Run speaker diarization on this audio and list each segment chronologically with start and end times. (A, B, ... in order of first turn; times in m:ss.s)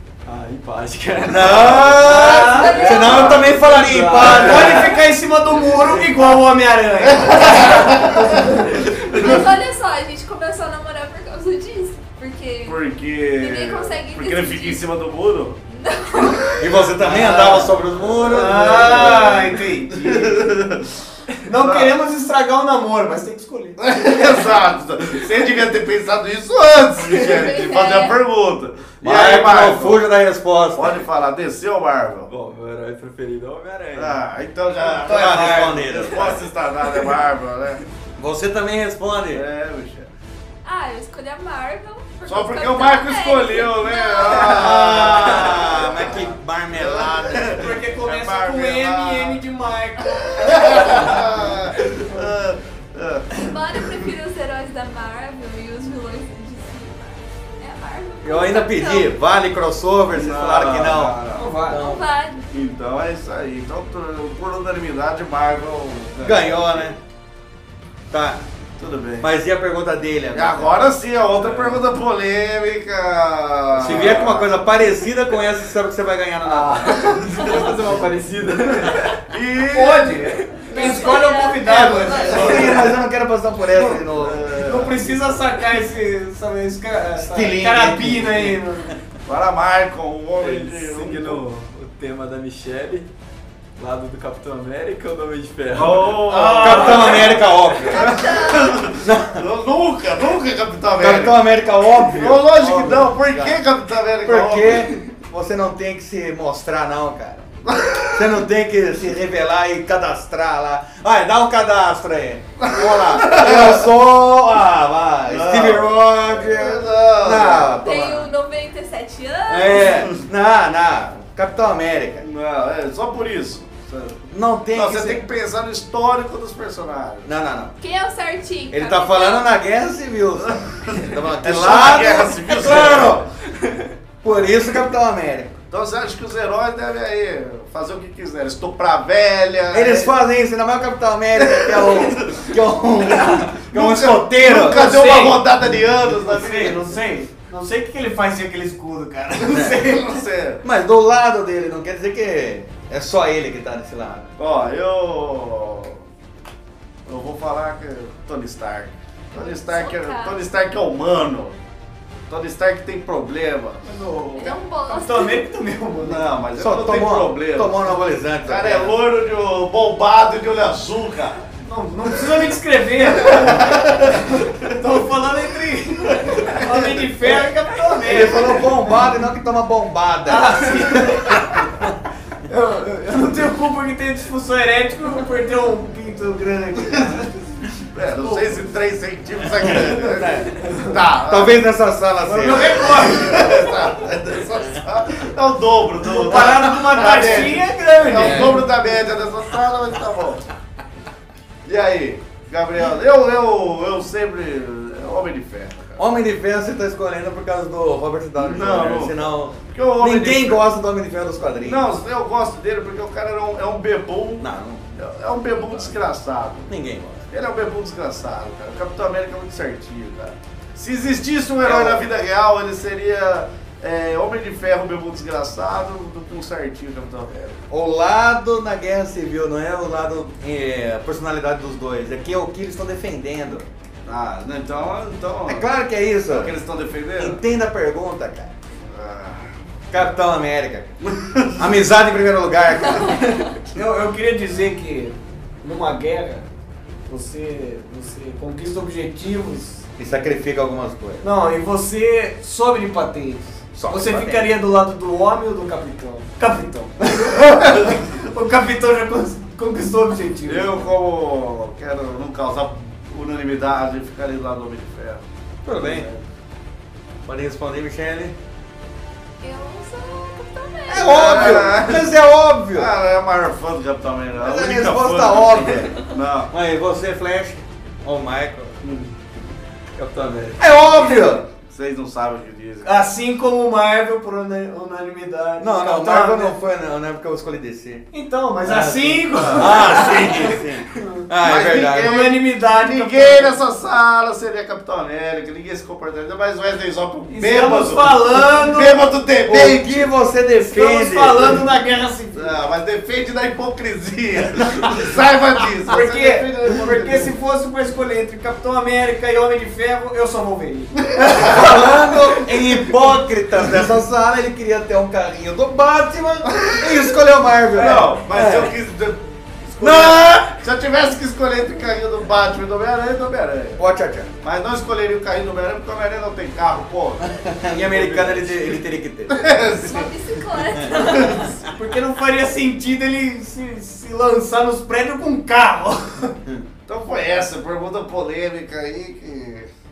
0:00.2-0:06.4 A
0:01.3-0:05.0 B
0:02.0-0:03.4 C
0:02.4-0:03.4 D
0:03.1-0:03.4 E
0:04.2-0:08.7 C
0:07.1-0:09.5 E
0:09.1-0:14.8 D
0:12.6-0:15.6 E
0:15.7-0:16.8 D
0:16.6-0:19.2 B
0:17.0-0:20.5 C
0:18.2-0:22.0 E
0:21.4-0:23.8 C
0:23.8-0:30.1 E
0:27.1-0:28.2 D
0:29.0-0:30.9 B
0:30.7-0:32.3 E
0:32.3-0:34.2 A
0:34.0-0:37.8 E
0:35.0-0:36.4 B
0:38.2-0:39.4 B
0:39.3-0:40.1 E
0:40.6-0:44.6 D
0:42.3-0:49.4 E
0:44.4-0:47.7 B
0:47.6-0:52.3 C
0:50.3-0:53.9 E
0:53.3-0:59.2 D
0:58.2-1:02.0 B
1:00.1-1:01.5 E
1:01.3-1:01.8 C
1:01.8-1:02.5 D
1:02.5-1:07.0 E
1:06.2-1:07.0 B
1:08.1-1:08.4 B
1:08.8-1:09.3 E
1:09.2-1:10.8 B
1:10.3-1:14.7 E
1:13.8-1:17.4 B
1:16.5-1:17.5 E
1:17.1-1:19.2 A
1:19.3-1:21.1 E
1:19.7-1:22.9 C
1:20.7-1:22.7 D
1:21.6-1:22.9 E
1:22.3-1:24.5 B
1:23.7-1:28.9 C
1:24.0-1:25.1 E
1:27.2-1:28.6 B
1:29.3-1:31.5 E
1:30.4-1:33.1 A
1:33.8-1:36.4 A
1:35.7-1:41.4 E
1:36.3-1:37.3 C
1:36.6-1:38.3 B
1:37.8-1:38.9 D
1:39.0-1:39.4 B
1:41.0-1:43.6 B
1:42.0-1:42.4 A
1:42.1-1:45.0 E
1:44.2-1:47.5 B
1:47.6-1:48.4 E
1:48.1-1:58.3 B
1:52.6-1:53.9 E
1:55.2-1:57.8 E
1:57.8-2:00.0 D
1:59.5-2:02.2 B
1:59.9-2:00.2 E
2:02.2-2:07.4 E
2:04.3-2:05.2 B
2:07.2-2:07.8 B
2:07.8-2:09.5 D
2:08.7-2:13.2 B
2:10.4-2:13.3 E
2:14.2-2:15.6 B
2:15.7-2:20.1 E
2:19.7-2:24.9 B
2:21.4-2:22.5 E
2:23.2-2:26.8 E
2:24.5-2:25.6 C
2:26.1-2:30.2 C
2:29.7-2:30.6 E
2:30.6-2:34.3 B
2:34.4-2:36.0 E
2:37.1-2:41.6 E
2:39.3-2:40.4 D
2:42.3-2:43.8 E
2:43.8-2:46.4 C
2:44.4-2:45.4 D
2:46.0-2:51.4 E
2:46.6-2:49.0 B
2:51.6-2:59.1 C
2:53.2-2:54.6 E
2:56.2-2:56.8 E
2:57.2-3:01.9 B
3:00.3-3:01.6 C
3:02.5-3:07.4 C
3:07.9-3:11.6 E
3:08.2-3:08.6 C
3:09.6-3:10.6 B
3:10.6-3:11.0 C
3:11.2-3:13.2 B
3:12.2-3:13.7 C
3:12.4-3:20.4 E
3:16.1-3:18.7 C
3:16.3-3:17.5 B
3:18.2-3:18.6 A
3:21.6-3:26.0 E
3:26.0-3:31.8 B
3:28.4-3:30.7 E
3:31.6-3:36.7 E
3:34.4-3:34.8 B
3:36.7-3:37.3 B
3:37.3-3:47.3 E
3:41.6-3:42.0 B
3:47.3-3:53.7 B
3:54.0-3:57.4 E
3:55.5-3:56.5 B
3:57.2-3:58.5 B
3:58.8-3:59.5 E
3:59.9-4:00.9 B
4:01.0-4:01.8 E
4:01.6-4:03.6 B
4:03.6-4:06.5 C
4:07.1-4:09.8 C
4:10.0-4:11.2 B
4:11.2-4:20.9 C
4:13.8-4:14.5 B
4:20.5-4:26.2 E
4:25.6-4:26.1 B
4:27.2-4:28.4 B
4:29.4-4:31.8 D
4:30.9-4:32.9 B
4:31.0-4:32.2 E
4:32.7-4:36.5 E
4:34.4-4:38.8 B
4:40.0-4:40.8 A
4:40.6-4:41.5 B
4:41.6-4:43.1 E
4:42.8-4:46.6 C
4:45.6-4:48.1 B
4:48.1-4:51.2 C
4:48.6-4:52.2 B
4:49.4-4:50.0 E
4:51.4-5:00.1 E
4:52.0-4:53.6 C
4:57.3-4:59.0 C
4:59.5-5:01.6 B
5:00.7-5:02.6 C
5:02.3-5:07.3 E
5:05.9-5:12.6 C
5:11.3-5:18.8 B
5:16.5-5:17.0 E
5:17.7-5:23.8 E
5:19.8-5:20.5 B
5:23.8-5:24.3 B
5:24.4-5:31.5 E
5:27.2-5:29.5 B
5:29.7-5:31.5 D
5:30.8-5:31.2 B
5:31.6-5:36.4 C
5:36.9-5:39.7 E